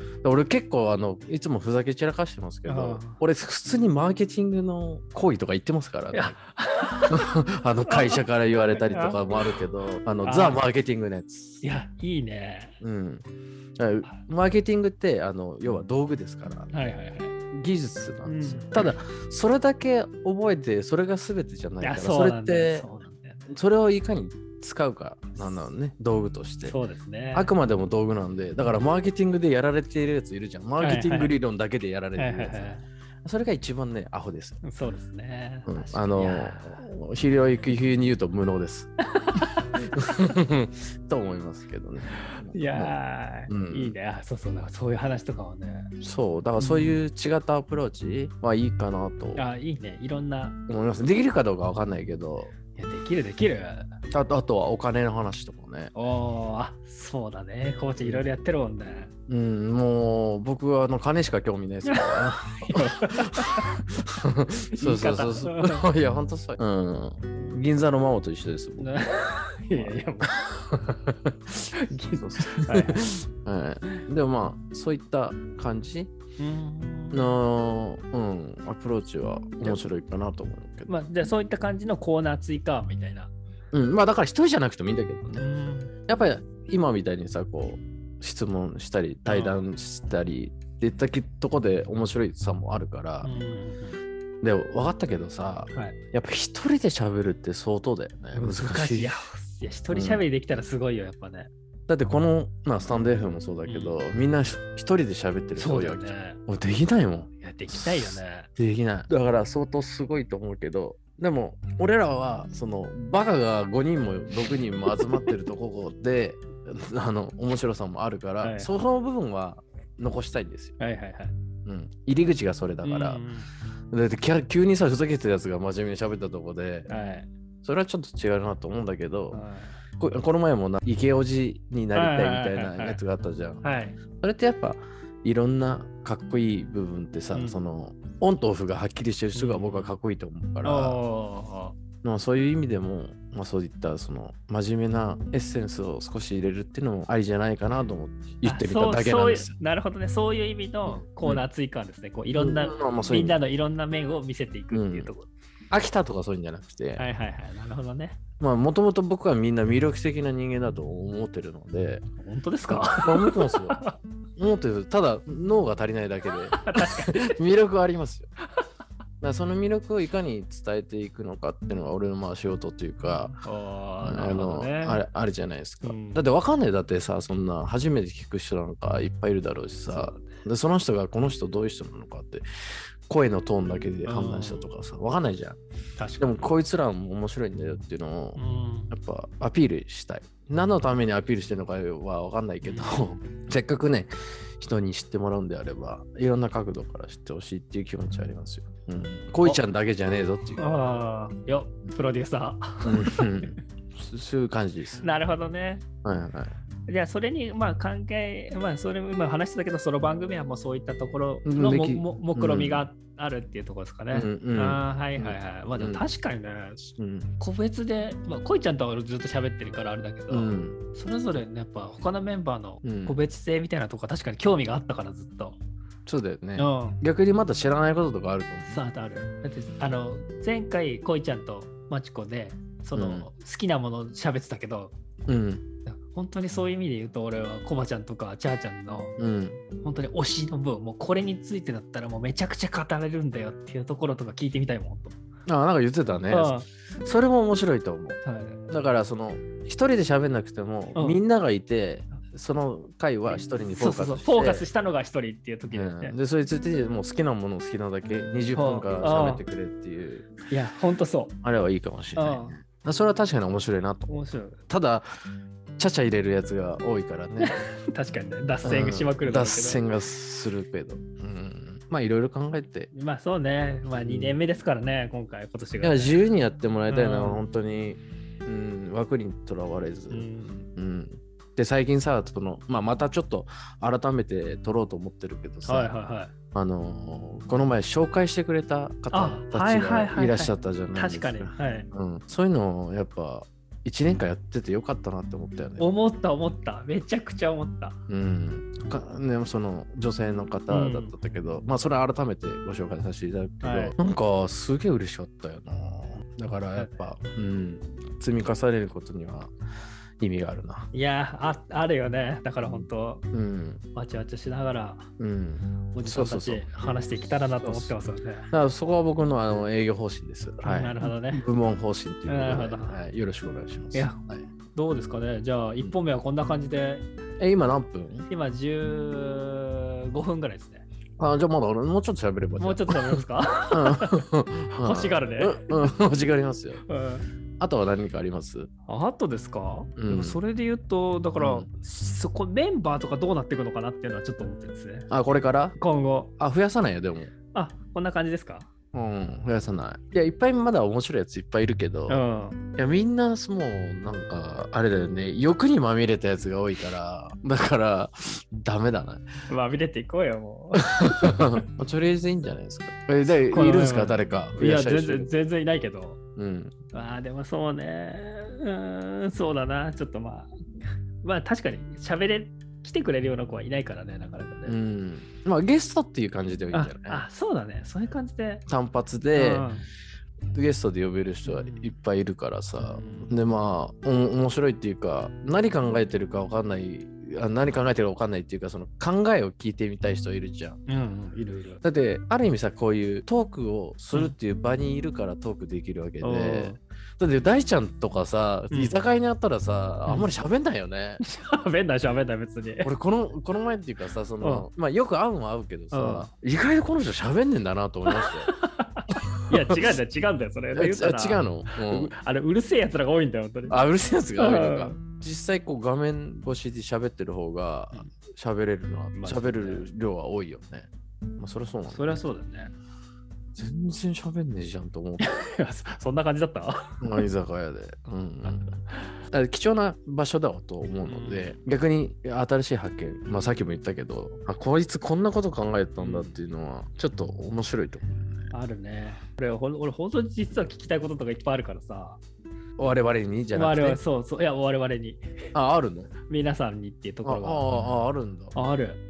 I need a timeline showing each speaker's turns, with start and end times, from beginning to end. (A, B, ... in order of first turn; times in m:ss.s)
0:00.2-0:06.4 A
0:02.7-0:03.2 B
0:06.1-0:09.4 B
0:07.1-0:11.6 A
0:10.2-0:10.6 B
0:11.6-0:12.8 B
0:12.8-0:13.2 A
0:13.8-0:16.7 A
0:16.7-0:17.3 B
0:17.5-0:22.9 A
0:18.3-0:18.9 B
0:21.8-0:23.5 B
0:23.5-0:26.8 A
0:26.7-0:27.5 B
0:27.3-0:34.6 A
0:30.8-0:31.3 B
0:32.2-0:32.8 B
0:34.6-0:36.8 B
0:35.7-0:38.9 A
0:39.1-0:39.7 B
0:39.8-0:43.0 A
0:42.2-0:45.9 B
0:43.5-0:44.0 A
0:46.0-0:49.4 A
0:46.6-0:47.0 B
0:49.4-0:50.6 B
0:50.7-0:52.5 A
0:52.7-0:53.9 B
0:54.1-0:55.9 A
0:55.9-0:59.1 B
0:58.0-0:58.3 A
0:59.3-1:09.0 A
1:01.9-1:03.8 B
1:04.7-1:05.8 B
1:08.8-1:11.0 B
1:09.8-1:11.4 A
1:11.6-1:13.2 B
1:12.2-1:16.1 A
1:16.4-1:17.2 B
1:17.1-1:20.9 A
1:20.9-1:23.3 B
1:23.7-1:25.4 A
1:25.4-1:25.9 B
1:26.1-1:33.3 A
1:29.3-1:29.6 B
1:33.2-1:34.0 B
1:34.4-1:39.2 A
1:38.3-1:41.5 B
1:39.9-1:40.2 A
1:41.9-2:00.8 A
1:43.7-1:44.0 B
1:45.6-1:46.4 B
1:47.4-1:48.5 B
1:58.4-1:58.7 B
2:00.8-2:01.4 B
2:01.6-2:03.2 A
2:02.8-2:03.5 B
2:03.9-2:06.9 A
2:06.9-2:07.3 B
2:07.6-2:09.4 A
2:09.3-2:09.8 B
2:10.0-2:13.6 A
2:12.0-2:13.0 B
2:13.6-2:14.0 B
2:14.1-2:21.0 A
2:17.3-2:17.6 B
2:19.3-2:19.9 B
2:20.6-2:21.8 B
2:22.0-2:29.5 A
2:28.4-2:35.3 B
2:30.9-2:31.4 A
2:32.3-2:33.4 A
2:34.7-2:35.1 A
2:35.7-2:37.0 A
2:37.0-2:38.2 B
2:38.4-2:42.0 A
2:42.2-2:44.0 B
2:42.7-2:43.8 A
2:44.4-2:48.3 A
2:46.5-2:47.4 B
2:49.2-2:53.4 A
2:53.3-2:55.0 B
2:54.0-3:02.5 A
2:55.8-2:56.2 B
2:59.9-3:00.3 B
3:03.1-3:05.6 A
3:04.0-3:04.6 B
3:06.0-3:06.3 B
3:06.2-3:08.4 A
3:08.4-3:08.9 B
3:08.9-3:20.7 A
3:12.6-3:13.2 B
3:20.6-3:23.5 B
3:22.8-3:25.1 A
3:25.0-3:25.9 B
3:26.0-3:26.5 A
3:26.9-3:45.6 B
3:31.4-3:32.9 A
3:34.1-3:36.0 A
3:37.0-3:37.3 A
3:40.3-3:40.8 A
3:42.8-3:43.2 A
3:46.1-3:48.8 A
3:46.6-3:47.0 B
3:48.6-3:55.0 B
3:53.0-3:53.3 A
3:55.3-3:55.6 A
3:55.9-3:59.2 B
3:59.2-3:59.6 A
3:59.8-4:05.2 B
4:05.5-4:14.7 A
4:06.3-4:06.7 B
4:08.2-4:08.6 B
4:13.7-4:16.2 B
4:15.7-4:20.3 A
4:18.6-4:19.4 B
4:20.5-4:21.4 B
4:21.4-4:24.1 A
4:22.2-4:22.6 B
4:24.1-4:24.6 B
4:24.7-4:25.1 A
4:25.8-4:27.7 A
4:27.4-4:29.9 B
4:28.6-4:32.9 A
4:32.9-4:36.2 B
4:34.0-4:34.4 A
4:35.8-4:45.9 A
4:36.9-4:37.4 B
4:40.1-4:40.7 B
4:45.7-4:46.3 B
4:46.5-4:55.9 A
4:49.1-4:51.9 B
4:55.8-4:58.0 B
4:58.1-5:09.5 A
5:00.7-5:01.1 B
5:03.6-5:03.9 B
5:06.8-5:07.0 B
5:10.2-5:10.9 A
5:10.9-5:13.2 B
5:13.3-5:13.8 A
5:14.0-5:15.1 B
5:15.2-5:16.7 A
5:15.9-5:18.5 B
5:17.5-5:24.5 A
5:20.6-5:21.4 B
5:22.3-5:23.0 B
5:23.9-5:24.2 B
5:24.7-5:27.1 B
5:27.4-5:28.3 A
5:28.3-5:30.8 B
5:31.2-5:36.8 A
5:32.6-5:35.9 B
5:36.9-5:37.3 B
5:37.6-5:38.7 A
5:38.9-5:45.1 B
5:40.0-5:40.4 A
5:41.4-5:41.7 A
5:45.1-5:45.8 A
5:45.8-5:46.3 B
5:46.4-5:47.3 A
5:47.5-5:48.7 B
5:48.9-5:52.2 A
5:52.1-5:52.6 B
5:52.8-5:59.3 A
5:59.5-6:01.6 B
6:00.8-6:05.3 A
6:03.5-6:06.2 B
6:06.4-6:06.8 A
6:06.9-6:10.6 B
6:11.2-6:14.8 B
6:14.7-6:17.2 A
6:16.7-6:18.6 B
6:18.7-6:19.7 A
6:19.3-6:19.9 B
6:20.5-6:30.8 A
6:21.4-6:21.9 B
6:22.8-6:23.4 B
6:30.9-6:31.8 B
6:31.8-6:41.2 A
6:36.2-6:36.8 B
6:41.2-6:42.9 B
6:42.8-6:48.5 A
6:44.4-6:44.7 B
6:45.9-6:46.3 B
6:48.1-6:53.8 B
6:49.5-6:49.8 A
6:50.7-6:52.1 A
6:53.7-7:02.0 A
6:54.4-6:55.0 B
6:59.1-6:59.9 B
7:01.9-7:02.7 B
7:03.6-7:05.3 A
7:05.2-7:07.0 B
7:07.0-7:08.8 A
7:08.5-7:09.2 B
7:09.3-7:18.5 A
7:11.0-7:11.5 B
7:16.0-7:16.4 B
7:18.5-7:22.2 B
7:22.8-7:24.0 A
7:23.6-7:25.5 B
7:25.5-7:26.1 A
7:26.3-7:27.7 B
7:27.2-7:28.5 A
7:28.5-7:29.0 B